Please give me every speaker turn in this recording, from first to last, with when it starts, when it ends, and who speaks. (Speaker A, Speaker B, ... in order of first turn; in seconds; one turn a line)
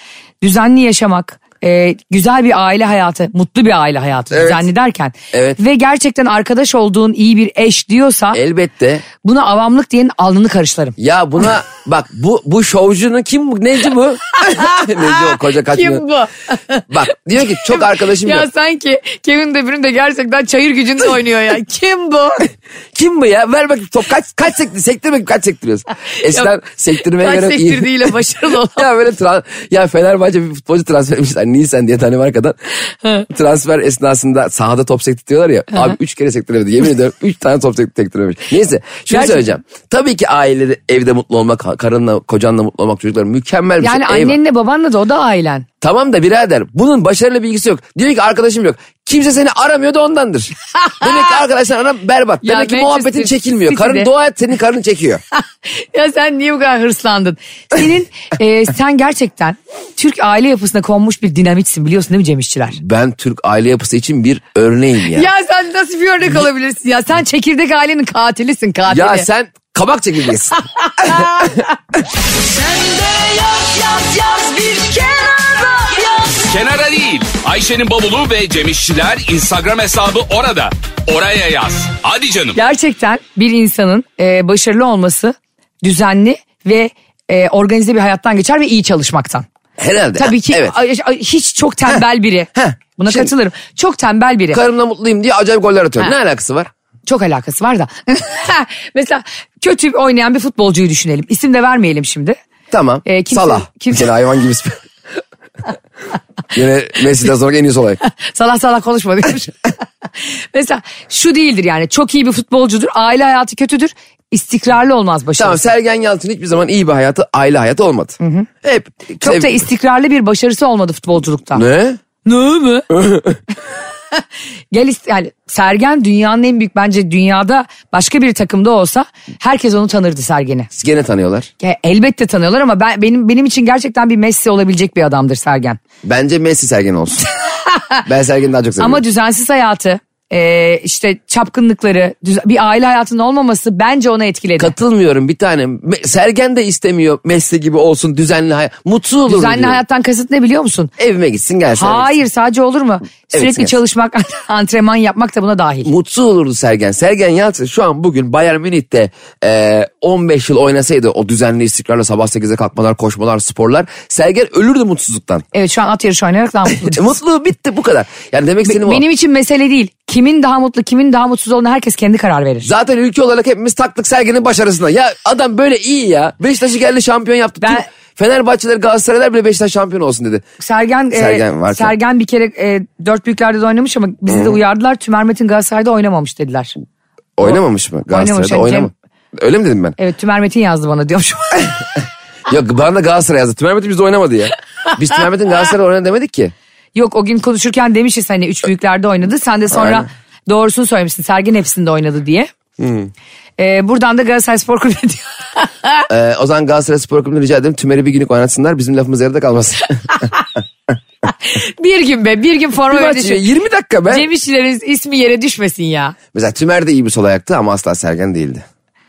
Speaker A: 0.4-8.4
Speaker B: 4.3-4.7
Speaker B: 5.3-5.6
Speaker B: 8.3-9.1
Speaker A: 9.2-11.0
Speaker B: 11.0-16.0
Speaker A: 14.3-22.4
Speaker B: 16.9-18.5
Speaker B: 22.9-28.1
Speaker A: 26.2-26.5
Speaker A: 27.1-28.9
Speaker B: 28.7-32.6
Speaker B: 33.3-44.4
Speaker A: 39.1-39.5
Speaker A: 43.8-45.7
Speaker B: 45.8-55.2
Speaker A: 50.9-51.1
Speaker A: 52.4-54.1
Speaker A: 55.4-62.8
Speaker B: 62.8-65.3
Speaker A: 65.1-69.3
Speaker B: 68.9-71.6
Speaker A: 70.8-71.7
Speaker A: 73.5-76.4
Speaker C: 76.4-82.6
Speaker A: 82.6-89.5
Speaker B: 89.8-90.8
Speaker A: 90.2-94.6
Speaker B: 92.6-93.3
Speaker B: 94.5-96.7
Speaker A: 97.1-102.4
Speaker B: 102.7-104.8
Speaker A: 103.0-104.1
Speaker B: 106.5-108.0
Speaker A: 108.1-109.7
Speaker A: 110.5-115.6
Speaker B: 115.4-119.6
Speaker A: 118.2-118.5
Speaker A: 119.2-121.6
Speaker B: 121.5-122.0
Speaker A: 122.2-122.9
Speaker B: 122.9-123.4
Speaker A: 124.7-130.7
Speaker B: 130.7-131.5
Speaker A: 131.6-135.8
Speaker B: 136.0-137.2
Speaker A: 137.6-138.0
Speaker B: 138.1-139.0
Speaker A: 138.8-144.7
Speaker B: 144.6-149.8
Speaker A: 149.3-150.9
Speaker B: 151.0-152.2
Speaker A: 151.8-155.9
Speaker B: 153.3-153.8
Speaker B: 155.8-165.4
Speaker A: 165.5-167.1
Speaker B: 166.8-169.0
Speaker A: 168.7-172.7
Speaker B: 172.6-180.4
Speaker A: 177.6-177.9
Speaker A: 180.6-186.8
Speaker B: 181.1-181.9
Speaker B: 184.3-184.6
Speaker B: 187.4-190.0
Speaker A: 188.1-188.9
Speaker A: 190.0-191.8
Speaker B: 192.5-196.5
Speaker A: 196.9-202.5
Speaker B: 199.7-200.1
Speaker B: 202.8-203.1
Speaker A: 203.6-206.1
Speaker B: 206.1-210.3
Speaker A: 210.1-210.4
Speaker A: 211.3-213.4
Speaker B: 212.9-214.3
Speaker A: 214.1-216.2
Speaker B: 216.3-218.6